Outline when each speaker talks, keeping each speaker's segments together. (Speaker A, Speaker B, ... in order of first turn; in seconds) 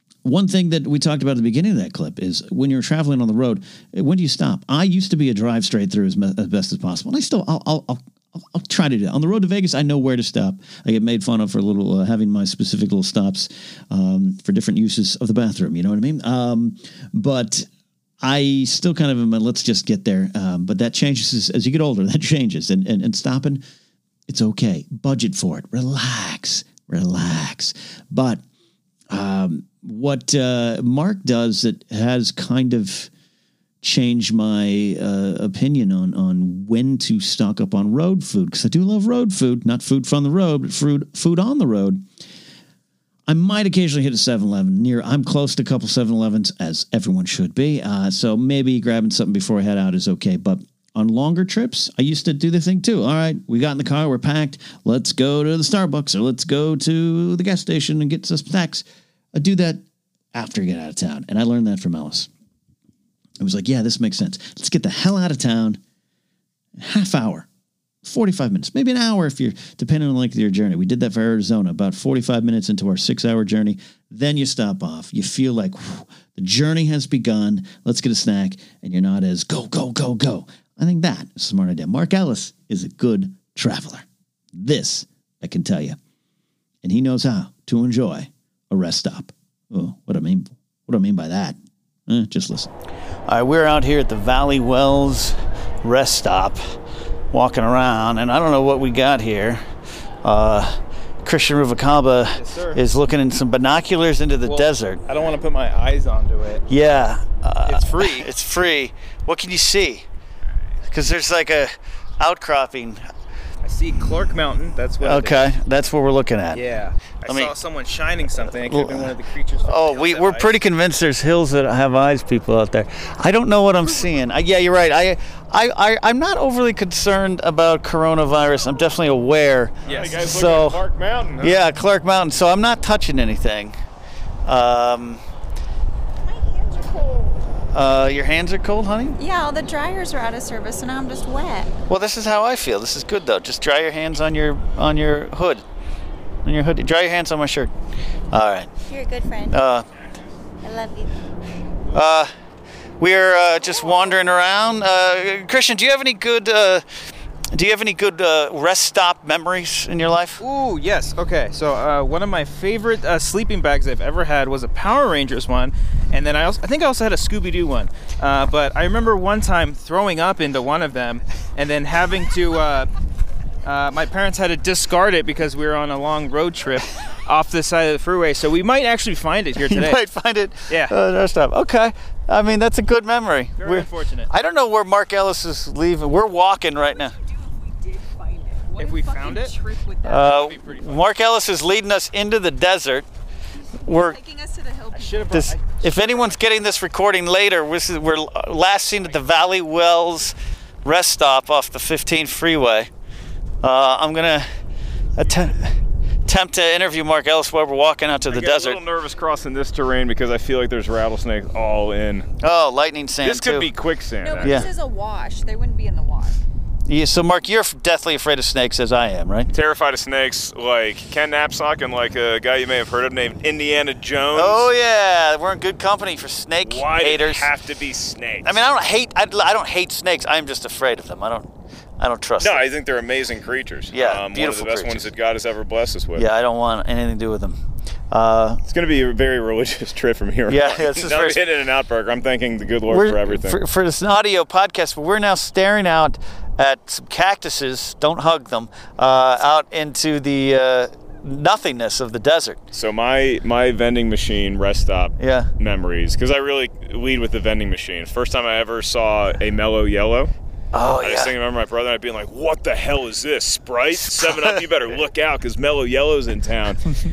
Speaker A: 0.2-17.7, 18.2-23.6, 24.3-28.4, 29.1-33.1, 33.8-42.0, 43.3-59.8, 60.3-62.3, 63.4-65.8, 66.8-67.5, 68.0-86.0, 86.8-92.7, 93.3-96.6, 97.3-99.6, 100.2-105.0, 106.7-110.1, 110.9-113.1, 115.0-116.6, 117.2-117.5, 118.5-130.8, 131.4-133.8, 134.4-135.2, 137.7-139.2, 141.9-145.6, 146.4-147.7, 148.3-148.7, 149.5-149.8, 151.9-152.3, 153.0-156.8, 157.5-160.4, 179.6-187.2, 190.0-193.1, 193.8-194.2, 195.3-202.9, 203.6-204.5, 205.2-205.7, 206.2-208.8, 212.4-213.7, 214.4-214.7, 216.9-219.5, 224.3-227.5, 228.4-232.7, 233.9-235.1, 236.1-238.6, 240.5-241.4, 242.9-252.6, 255.2-255.5, 260.7-261.3, 264.0-264.6
Speaker B: 102.4-102.8, 104.5-106.7, 107.7-108.3, 113.6-115.5, 116.5-120.5, 160.4-172.9, 173.6-180.0, 180.7-180.9, 183.6-184.3, 188.8-189.5, 190.2-191.0, 194.9-195.6
Speaker C: 129.8-131.6, 208.3-212.3, 213.2-214.6, 219.5-224.7, 226.6-228.5, 232.4-236.2, 238.7-243.6, 252.7-260.3, 261.0-266.9
Speaker D: 136.3-137.4, 139.2-141.7, 148.9-149.6, 150.6-151.1, 187.2-190.4, 193.9-195.4, 214.2-216.4